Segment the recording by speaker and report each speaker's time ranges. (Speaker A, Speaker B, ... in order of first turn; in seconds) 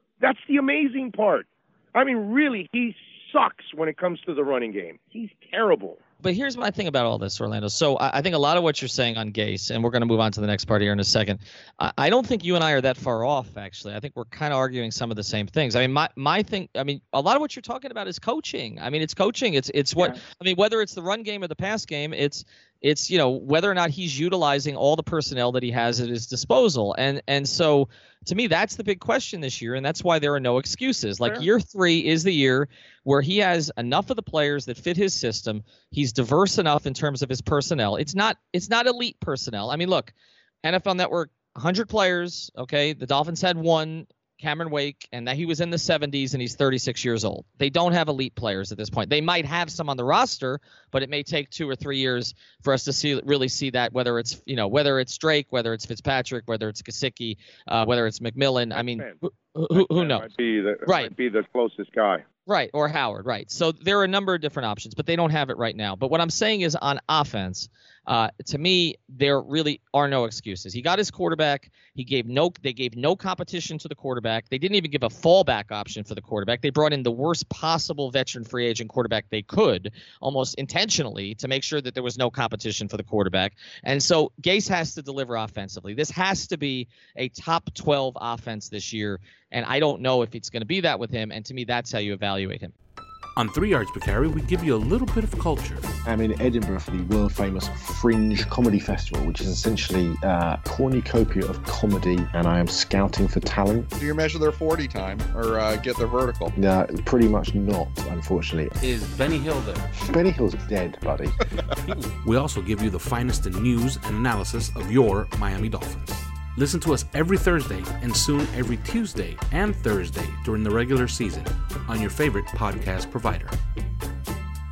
Speaker A: 0.2-6.0, 58.7-59.2, 59.7-62.2
Speaker B: 6.2-60.2, 60.9-61.1, 62.5-92.7
Speaker C: 93.3-95.9, 108.8-109.9, 111.9-123.6
Speaker D: 96.1-103.9, 106.5-108.8, 109.9-111.3
Speaker E: 103.9-106.5